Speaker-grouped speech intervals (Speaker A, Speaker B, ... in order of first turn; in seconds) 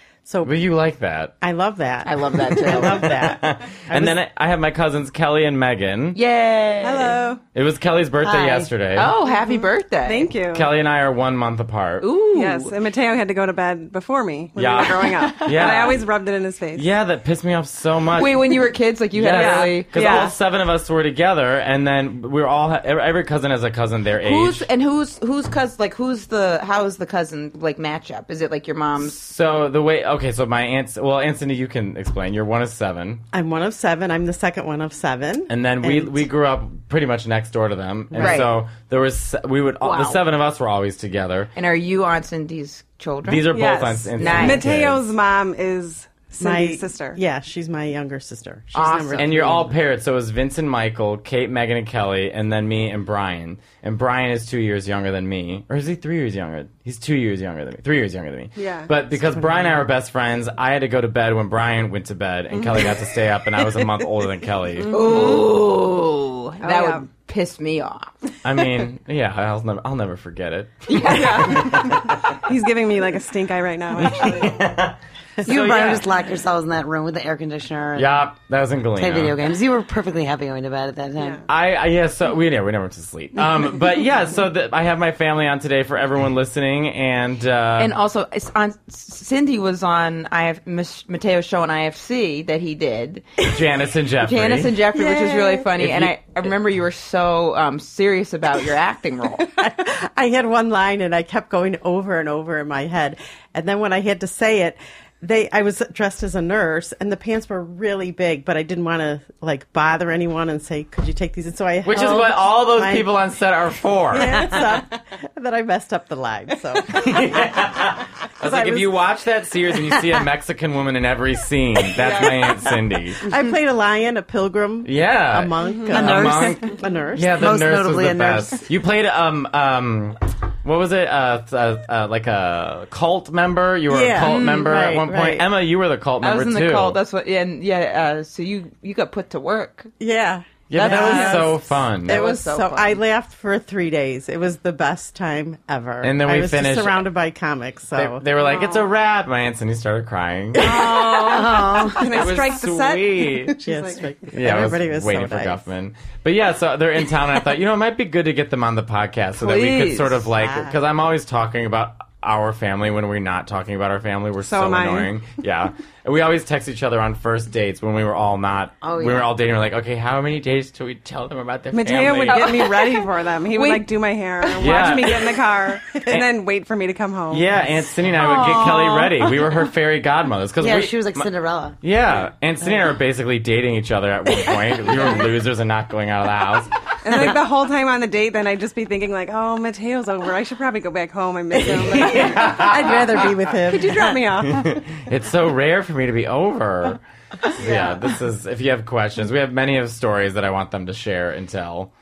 Speaker A: 0.2-0.6, 1.4-4.2, 33.3-36.3, 38.1-38.5, 46.4-49.8, 59.4-59.7, 94.9-95.7, 99.6-113.2, 114.1-117.8, 118.4-119.0, 123.2-127.4, 133.9-135.5, 140.0-148.3, 153.6-155.6, 160.4-160.8, 192.0-194.1
Speaker B: 0.4-1.3, 2.5-6.2, 7.5-9.1, 10.5-12.1, 14.6-16.1, 16.8-24.7, 29.0-33.2, 35.5-41.5, 43.2-45.0, 49.1-65.4, 68.4-72.4, 74.0-76.1, 78.0-79.4, 81.5-88.0, 93.4-94.8, 95.8-96.2, 111.8-114.6, 116.9-123.3, 124.8-137.0, 140.7-142.2, 146.0-147.0, 147.9-150.9, 152.0-153.6, 154.3-172.6, 174.6-175.4, 176.0-176.3, 177.3-181.3, 181.8-187.4, 191.6-193.3, 194.4-201.9
Speaker C: 2.0-3.1, 6.2-7.2, 8.2-10.3, 12.0-12.8, 18.2-20.3, 24.2-29.2, 38.2-38.5, 39.8-40.2, 41.5-43.6, 44.2-44.7, 48.7-49.3, 64.8-68.1, 70.9-71.7, 87.8-93.3, 94.2-99.5, 134.2-134.7, 136.2-139.9, 140.7-143.0, 150.6-151.9, 159.4-160.2, 172.3-173.9, 178.2-179.1
Speaker D: 6.8-7.4, 9.2-10.7, 12.3-16.9, 19.3-20.4, 43.5-47.2, 58.6-58.9, 66.6-67.0, 71.0-74.7, 81.2-81.5, 121.9-122.6, 148.5-148.8, 151.8-154.1, 164.4-165.1, 171.7-177.6, 187.0-192.8, 193.7-194.8, 197.6-197.9
Speaker E: 75.4-78.2, 79.0-81.4, 125.9-126.6, 127.3-128.7, 150.6-152.1, 168.8-169.3, 178.3-179.3, 180.6-181.8